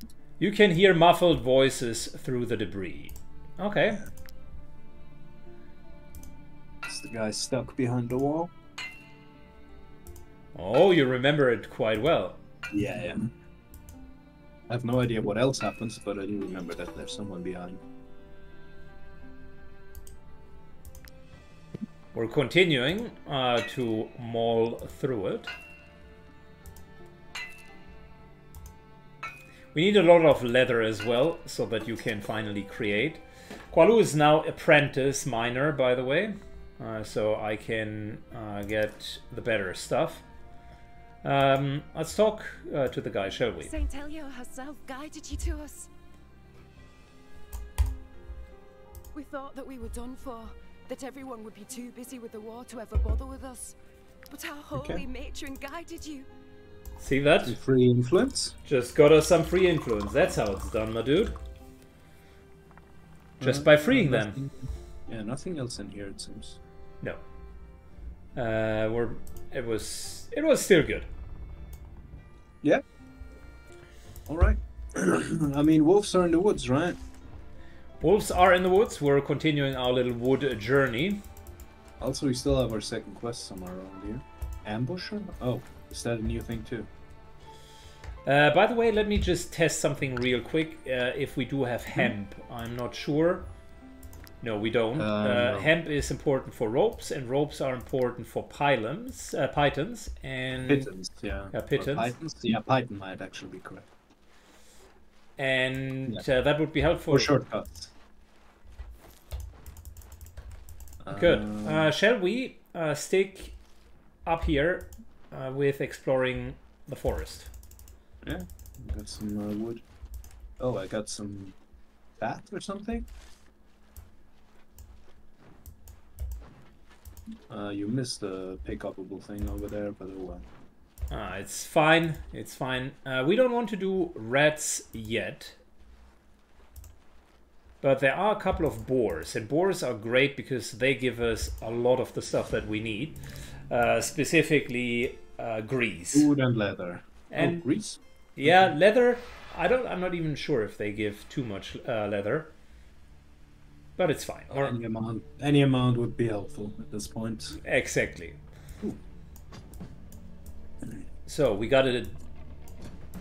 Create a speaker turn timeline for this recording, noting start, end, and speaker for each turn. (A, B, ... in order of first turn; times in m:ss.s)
0:00.4-0:04.0 A
0:06.9-0:08.5 B
0:10.6-0:12.4 A
0:12.7-0:13.3 B
0:14.7-0:17.8 B
0:22.1-0:25.5 A
0:29.7-0:40.2 A
0:41.2-0:43.7 A
0:43.6-0:45.9 C
0:49.2-0:53.8 C
0:54.3-0:56.3 C
0:54.7-0:55.0 B
0:57.0-0:57.6 A
0:57.5-0:58.6 B
0:58.6-1:01.4 A
1:03.4-1:06.6 B
1:03.4-1:04.4 A
1:08.4-1:11.1 A
1:14.3-1:17.0 B
1:18.0-1:21.2 A
1:22.0-1:26.9 B
1:28.2-1:33.5 A
1:34.4-1:40.9 A
1:35.0-1:35.7 B
1:40.7-1:43.9 B
1:41.5-1:42.1 A
1:45.4-1:47.3 A
1:47.1-1:47.9 B
1:51.0-1:51.9 B
1:51.1-1:53.6 A
1:54.3-1:57.5 A
1:58.2-1:59.8 B
2:00.6-2:01.6 B
2:02.2-2:03.1 B
2:07.5-2:10.5 B
2:11.1-2:15.6 A
2:17.8-2:26.3 A
2:26.1-2:28.7 B
2:27.3-2:27.6 A
2:28.4-2:32.5 A
2:34.0-2:34.8 A
2:34.6-2:37.6 B
2:37.6-2:38.4 A
2:41.3-2:42.2 A